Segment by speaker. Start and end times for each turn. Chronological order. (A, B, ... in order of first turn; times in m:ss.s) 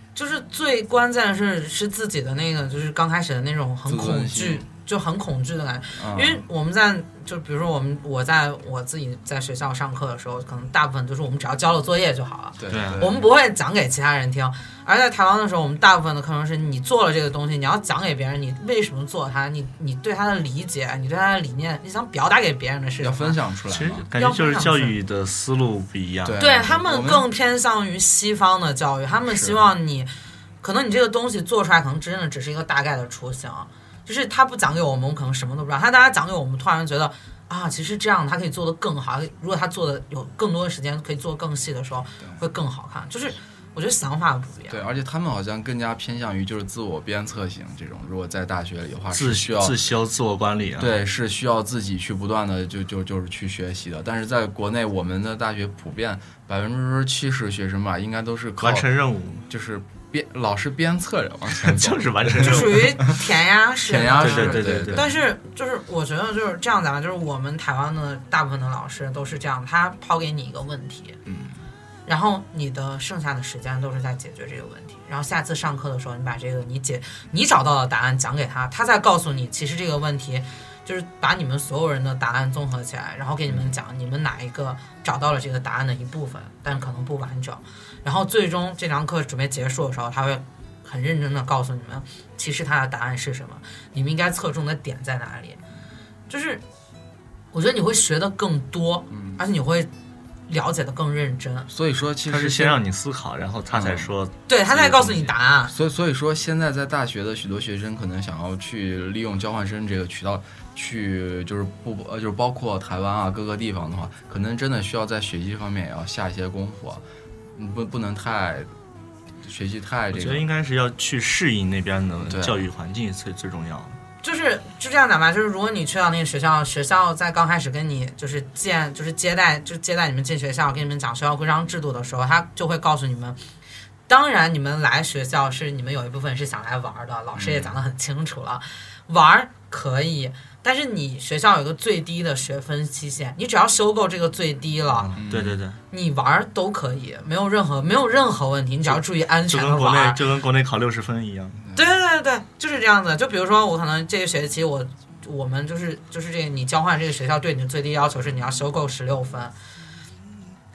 0:00.1-0:23.4 A
0:03.8-0:04.6 B
0:06.0-0:06.4 B
0:12.6-0:13.2 B
0:12.7-0:13.1 C
0:23.0-0:24.0 B
0:23.7-0:26.4 C
0:24.2-0:25.0 A
0:26.2-0:27.3 B
0:26.4-0:30.1 A
0:29.3-0:29.6 B
0:30.6-0:44.8 A
0:44.7-0:49.9 B
0:49.1-0:51.0 C
0:50.8-0:58.9 B
0:58.6-0:59.4 C
0:59.5-1:03.2 B
1:01.6-1:03.1 C
1:02.4-1:11.2 A
1:03.8-1:05.1 B
1:04.2-1:05.1 C
1:11.2-1:11.6 B
1:12.0-1:35.6 A
1:36.3-1:36.6 A
1:37.5-1:39.9 A
1:39.1-1:39.4 B
1:40.5-1:41.7 A
1:41.7-1:42.8 B
1:42.3-1:45.3 C
1:43.7-1:44.1 B
1:44.5-1:45.7 A
1:45.7-1:57.0 B
1:57.5-1:58.7 B
1:59.4-2:00.4 B
2:00.1-2:04.0 C
2:02.2-2:02.7 B
2:04.2-2:13.4 A
2:14.1-2:25.1 A
2:17.3-2:17.8 B
2:25.0-2:25.8 C
2:25.2-2:25.6 B
2:25.9-2:30.2 A
2:29.5-2:31.6 C
2:31.7-2:39.5 A